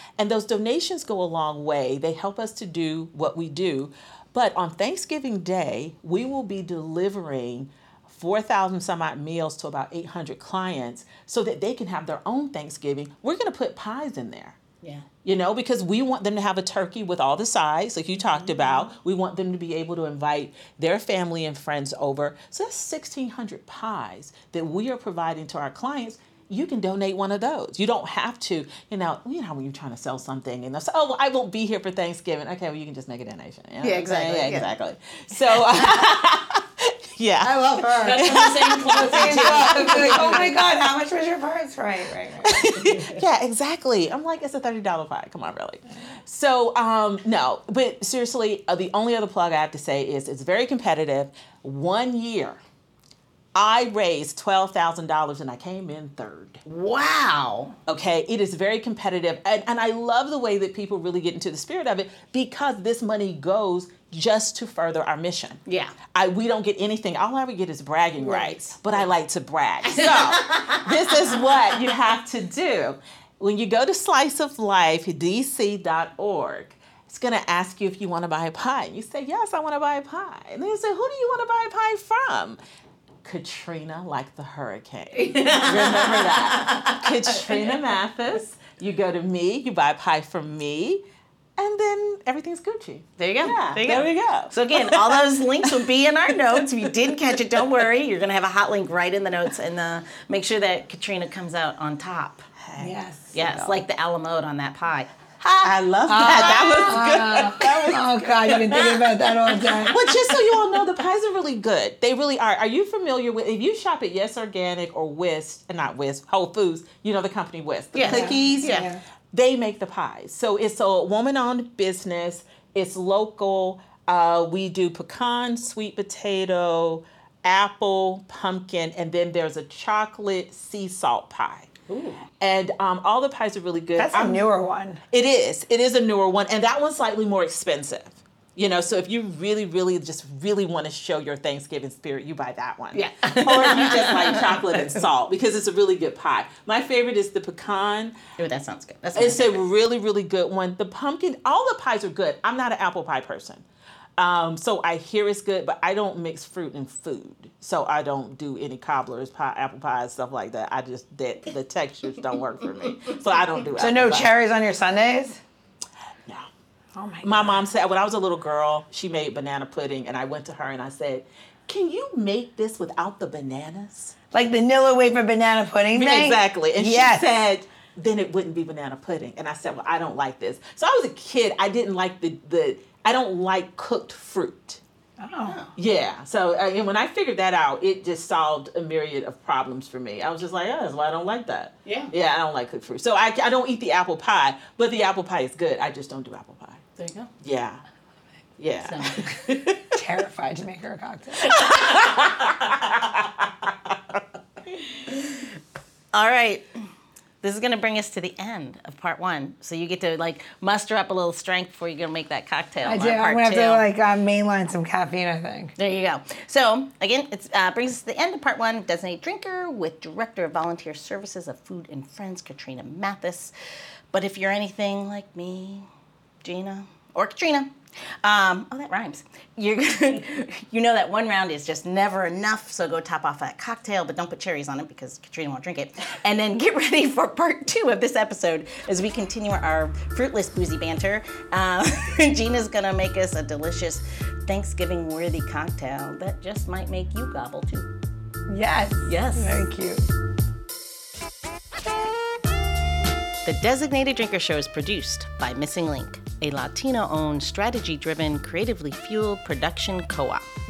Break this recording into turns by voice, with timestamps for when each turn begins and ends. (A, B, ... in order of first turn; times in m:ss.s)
0:00.2-0:14.6 A
0:14.8-0:15.1 B
0:15.2-0:40.6 A
0:33.8-0:34.7 B
0:35.5-0:36.0 B
0:37.4-0:42.6 C
0:38.0-0:40.6 B
0:42.4-0:52.6 A
0:53.5-0:56.6 A
0:56.6-0:57.7 B
0:57.9-1:05.6 A
1:05.6-1:05.9 B
1:06.1-1:22.6 A
1:08.2-1:08.6 B
1:09.8-1:11.6 B
1:23.2-1:31.0 A
1:25.2-1:27.6 B
1:31.6-1:35.8 A
1:33.2-1:42.4 B
1:42.6-1:43.8 A
1:42.8-1:43.3 C
1:43.3-1:46.9 B
1:45.6-1:49.2 A
1:46.1-1:50.0 C
1:49.8-2:11.8 A
1:57.9-1:58.9 B
1:58.0-1:59.0 C
2:11.9-2:12.2 B
2:12.4-2:14.4 A
2:14.0-2:15.0 C
2:15.1-2:28.1 A
2:22.9-2:25.0 B
2:28.4-2:29.6 B
2:29.2-2:33.6 A
2:34.2-2:44.3 A
2:43.8-2:45.4 C
2:47.0-2:47.6 C
2:47.2-2:54.1 A
2:54.3-2:57.3 C
2:55.9-3:04.8 A
3:05.2-3:05.6 C
3:05.4-3:05.7 B
3:05.7-3:16.8 A
3:11.8-3:12.1 B
3:17.0-3:17.3 B
3:17.4-3:17.8 A
3:18.6-3:19.8 A
3:18.8-3:19.4 B
3:19.9-3:21.6 C
3:21.5-3:24.2 A
3:26.1-3:26.6 B
3:27.4-3:33.8 B
3:32.8-3:35.7 C
3:35.8-3:43.5 B
3:44.1-3:45.9 B
3:46.4-4:07.9 B
4:08.5-4:10.0 C
4:09.0-4:09.6 B
4:13.4-4:20.5 B